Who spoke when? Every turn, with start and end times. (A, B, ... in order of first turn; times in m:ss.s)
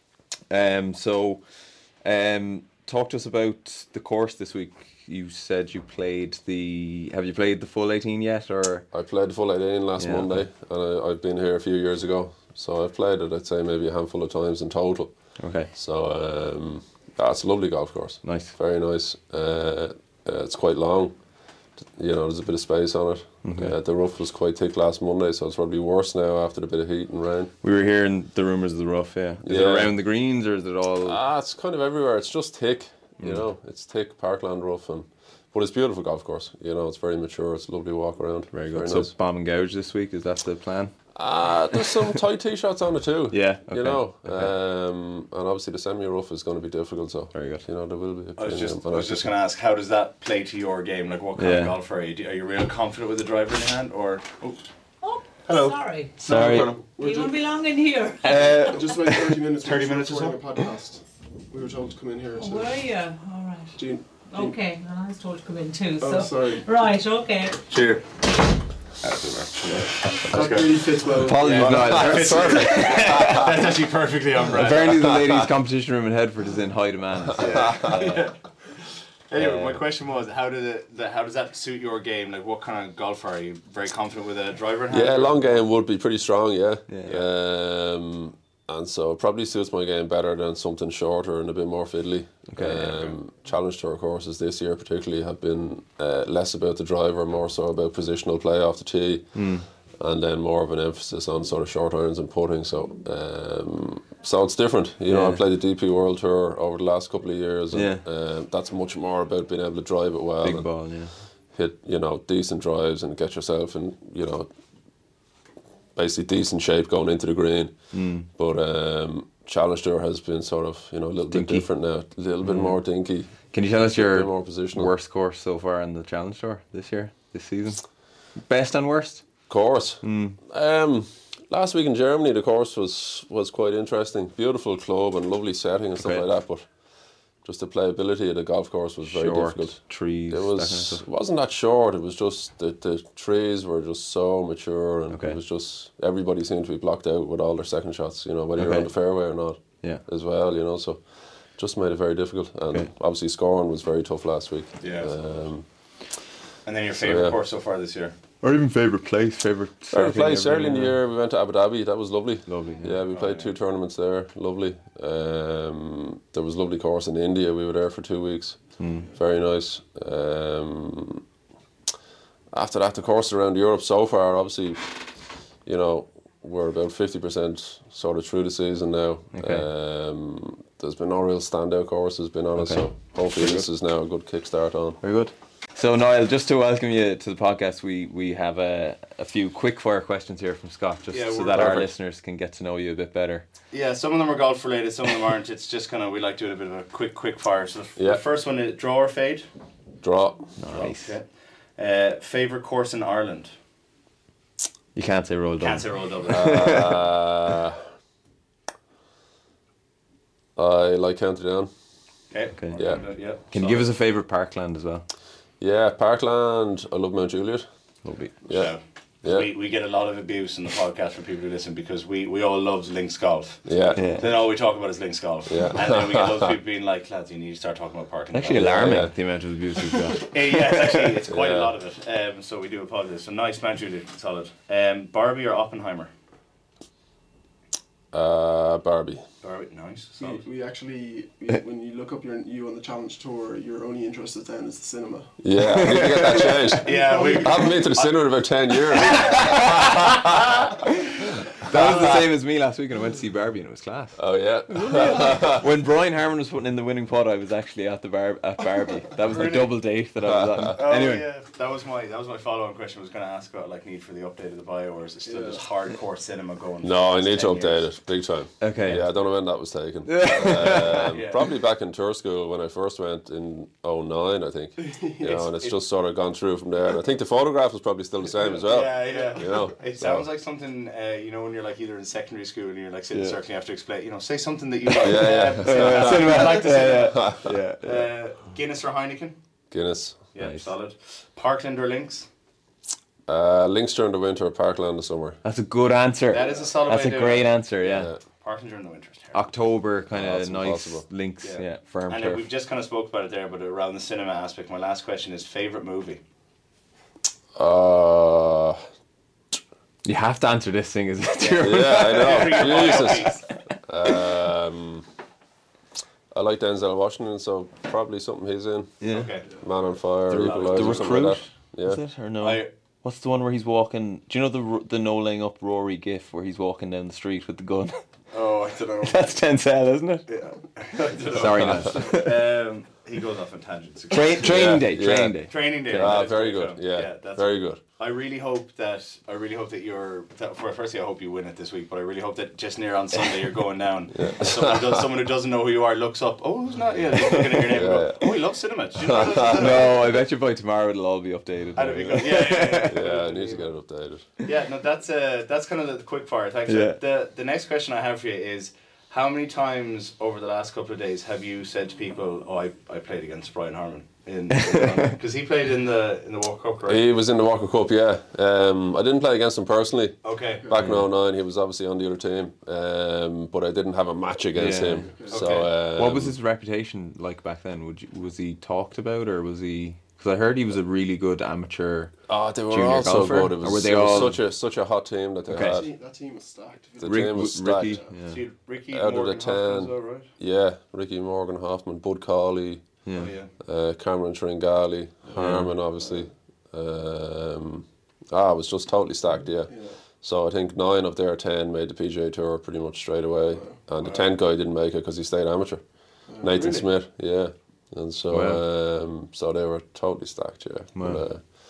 0:00.5-0:01.4 A
0:02.0-0:08.9 A
0:08.9-0:15.1 B
0:10.0-0:10.4 A
0:15.4-0:15.7 A
0:15.7-0:21.2 B
0:18.2-0:18.5 A
0:22.0-0:27.5 B
0:23.4-0:23.7 A
0:27.6-0:31.2 A
0:29.4-0:29.9 B
0:31.0-0:39.1 B
0:33.2-0:33.4 A
0:38.5-0:40.9 A
0:41.2-0:49.3 B
0:43.3-0:44.5 A
0:47.3-0:47.6 A
0:48.4-0:54.6 C
0:51.4-0:51.8 A
0:55.0-0:58.9 D
0:55.5-0:56.8 C
0:56.2-0:56.8 A
0:56.5-0:57.4 E
0:58.2-0:59.4 A
0:58.7-1:02.8 E
0:59.6-1:00.6 C
1:02.3-1:07.6 D
1:03.8-1:04.6 E
1:06.0-1:06.7 E
1:07.7-1:08.2 C
1:09.0-1:15.1 C
1:09.6-1:12.0 E
1:11.1-1:13.7 A
1:14.5-1:18.3 A
1:15.1-1:15.5 B
1:17.4-1:18.4 C
1:17.5-1:17.8 B
1:19.3-1:25.6 C
1:19.4-1:19.8 A
1:24.9-1:39.4 B
1:26.9-1:27.2 A
1:32.5-1:33.1 A
1:39.4-1:39.7 A
1:39.9-1:50.7 B
1:45.1-1:45.4 A
1:47.7-1:48.0 A
1:50.4-1:51.1 A
1:51.5-1:54.5 B
1:56.0-1:57.7 B
1:57.9-1:58.3 A
1:58.3-2:03.4 B
2:01.3-2:01.7 A
2:02.4-2:02.8 A
2:03.5-2:07.8 A
2:03.9-2:04.9 B
2:08.4-2:09.2 A
2:09.5-2:16.7 B
2:10.0-2:10.4 A
2:16.0-2:16.3 A
2:17.4-2:31.0 B
2:19.0-2:21.0 A
2:25.1-2:25.4 A
2:28.6-2:28.9 A
2:31.6-2:35.7 B
2:34.8-2:35.1 C
2:36.6-2:38.2 C
2:37.0-2:37.4 B
2:38.4-2:41.0 A
2:39.9-2:51.2 B
2:42.5-2:43.0 A
2:43.1-2:43.5 C
2:48.8-2:49.1 A
2:52.5-2:55.1 B
2:55.6-3:05.0 B
2:59.3-2:59.6 A
3:02.6-3:03.7 A
3:05.0-3:13.5 A
3:11.1-3:11.9 C
3:11.6-3:11.9 B
3:13.7-3:19.5 C
3:18.0-3:18.2 B
3:20.0-3:20.6 B
3:20.6-3:21.2 A
3:20.7-3:21.3 C
3:21.8-3:23.5 C
3:25.0-3:27.0 A
3:25.6-3:26.8 C
3:26.3-3:27.8 B
3:30.6-3:31.7 B
3:32.3-3:33.9 C
3:32.8-3:33.0 B
3:33.5-3:35.1 A
3:35.6-3:37.7 B
3:38.0-3:38.3 A
3:38.4-3:38.7 B
3:38.5-3:48.8 C
3:43.7-3:44.2 B
3:44.0-3:44.3 A
3:45.5-3:46.6 B
3:48.3-3:51.1 A
3:48.5-3:49.1 B
3:50.1-3:56.1 C
3:51.3-3:51.7 B
3:58.1-3:59.2 B
3:59.4-4:00.4 C
4:00.2-4:05.3 E
4:05.4-4:09.4 B
4:05.6-4:06.8 A
4:06.8-4:08.2 C
4:06.8-4:07.7 E
4:08.9-4:10.9 C
4:09.0-4:10.2 A
4:10.8-4:11.1 A
4:11.6-4:12.2 C
4:11.6-4:14.2 A
4:14.2-4:15.7 B
4:14.8-4:21.3 A
4:14.9-4:15.4 E
4:19.2-4:19.8 C
4:20.2-4:20.8 B
4:20.7-4:27.9 C
4:25.3-4:25.6 E
4:26.8-4:40.3 B
4:28.6-4:29.1 A
4:30.1-4:31.2 A
4:30.7-4:31.5 C
4:34.8-4:35.4 E
4:35.2-4:35.8 C
4:38.6-4:49.4 C
4:39.1-4:39.6 E
4:43.1-4:43.4 A
4:45.0-4:47.6 B
4:45.1-4:48.1 A
4:49.7-4:50.2 B
4:50.3-4:52.3 C
4:50.4-4:50.7 A
4:53.3-4:55.4 B
4:55.4-4:58.1 A
4:56.3-4:57.5 C
4:57.8-4:58.2 B
4:58.4-4:59.4 C
4:59.3-5:02.4 A
5:00.1-5:01.1 B
5:01.4-5:06.2 C
5:07.6-5:08.8 B
5:10.0-5:13.5 A
5:11.4-5:13.4 C
5:11.6-5:15.1 B
5:16.3-5:18.9 B
5:19.0-5:19.3 A
5:19.1-5:19.6 C
5:19.6-5:22.0 B
5:20.3-5:28.0 A
5:20.3-5:21.2 C
5:22.4-5:22.7 C
5:28.3-5:29.3 C
5:29.0-5:30.3 A
5:30.3-5:34.8 C
5:31.3-5:32.5 A
5:31.6-5:31.9 B
5:34.1-5:36.2 A
5:34.4-5:35.4 B
5:35.5-5:50.2 C
5:35.9-5:37.8 B
5:44.1-5:45.1 B
5:47.3-5:47.6 A
5:47.7-5:48.3 B
5:49.0-5:49.8 B
5:49.5-5:53.0 A
5:51.8-5:53.7 C
5:52.9-5:54.3 B
5:54.4-6:07.0 C
5:56.7-5:57.0 A
6:04.5-6:05.2 A
6:06.9-6:16.4 B
6:10.2-6:10.7 C
6:10.8-6:11.1 A
6:14.6-6:15.1 A
6:15.0-6:15.5 E
6:15.3-6:15.7 C
6:16.0-6:22.1 A
6:22.3-6:25.9 B
6:22.7-6:24.4 A
6:25.5-6:25.8 A
6:25.6-6:28.2 E
6:27.0-6:28.0 B
6:27.0-6:28.4 A
6:28.3-6:30.3 C
6:28.9-6:32.9 B
6:33.1-6:33.3 A
6:33.2-6:33.5 C
6:33.6-6:45.8 B
6:35.3-6:36.3 E
6:35.4-6:35.7 A
6:39.7-6:40.0 E
6:43.5-6:43.8 E
6:44.0-6:44.3 C
6:46.3-6:46.8 E
6:46.4-6:51.4 B
6:48.3-6:48.6 A
6:51.0-6:51.2 A